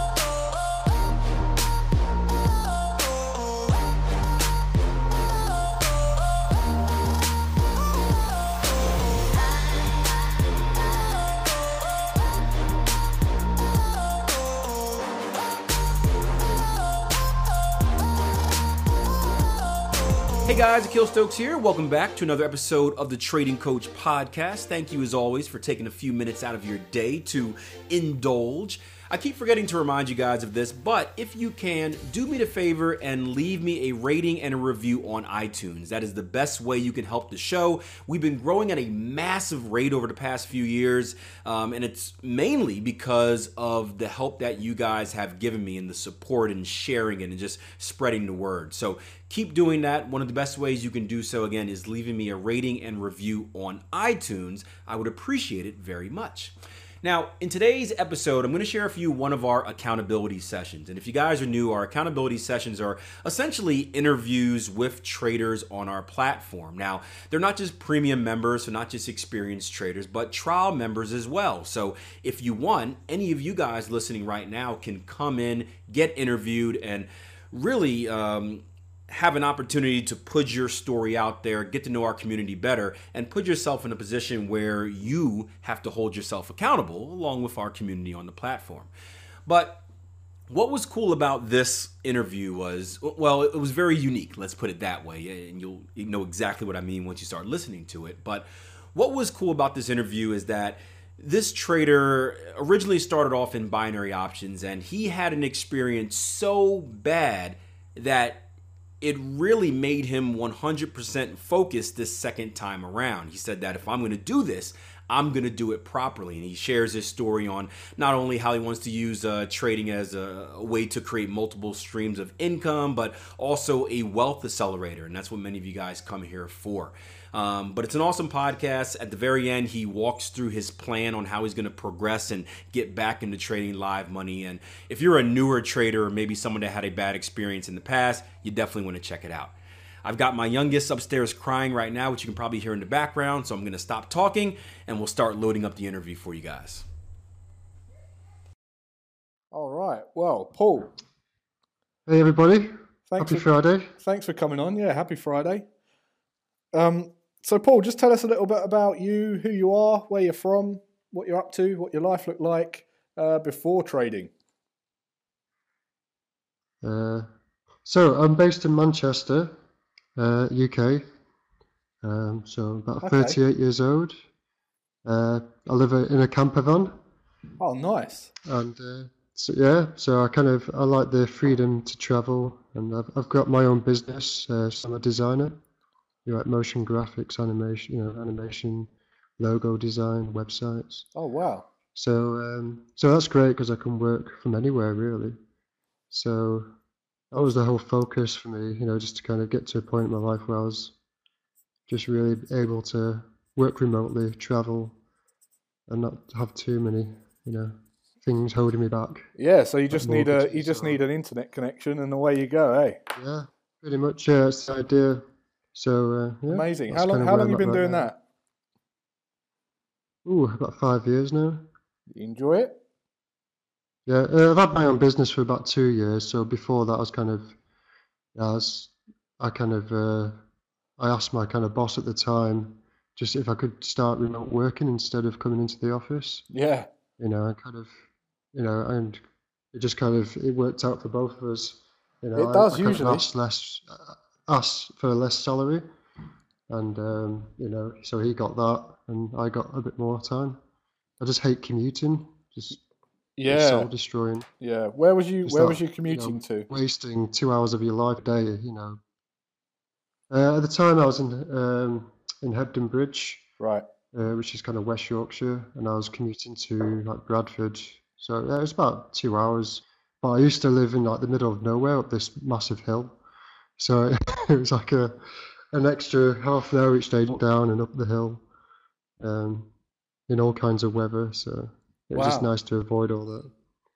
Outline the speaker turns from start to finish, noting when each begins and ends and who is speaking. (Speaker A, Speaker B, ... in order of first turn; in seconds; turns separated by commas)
Speaker A: 20.4-88.9, Speaker A: 89.5-89.8, Speaker A: 90.5-108.4, Speaker A: 109.0-139.5, Speaker A: 140.1-146.9, Speaker B: 149.5-150.9, Speaker C: 152.1-153.9, Speaker B: 153.1-155.7, Speaker B: 156.7-164.3, Speaker C: 166.8-167.3, Speaker C: 167.8-169.6, Speaker C: 170.2-171.1, Speaker C: 172.0-174.2, Speaker B: 173.0-173.4, Speaker C: 175.1-177.0, Speaker B: 177.6-178.3, Speaker C: 178.4-185.6, Speaker C: 186.3-191.1, Speaker B: 191.2-191.7, Speaker C: 191.9-195.4, Speaker C: 196.1-196.7, Speaker C: 197.3-200.9, Speaker C: 201.9-205.0, Speaker C: 205.9-209.3, Speaker B: 209.4-213.0, Speaker C: 209.9-211.0, Speaker C: 213.2-218.1, Speaker B: 216.5-218.2, Speaker C: 220.2-221.7, Speaker B: 222.1-222.8, Speaker C: 224.1-227.6, Speaker C: 228.4-230.4, Speaker C: 231.0-236.5, Speaker B: 236.5-236.9, Speaker C: 237.2-238.0, Speaker C: 238.5-245.8, Speaker B: 242.4-243.3, Speaker C: 246.7-250.6, Speaker C: 251.2-252.8, Speaker B: 253.4-253.9, Speaker C: 253.4-254.5, Speaker B: 254.6-256.7, Speaker C: 255.4-259.0, Speaker C: 260.3-263.4, Speaker B: 263.6-263.9, Speaker C: 264.1-273.2, Speaker C: 273.8-278.4, Speaker C: 279.2-279.7, Speaker C: 280.3-283.5, Speaker B: 282.1-282.5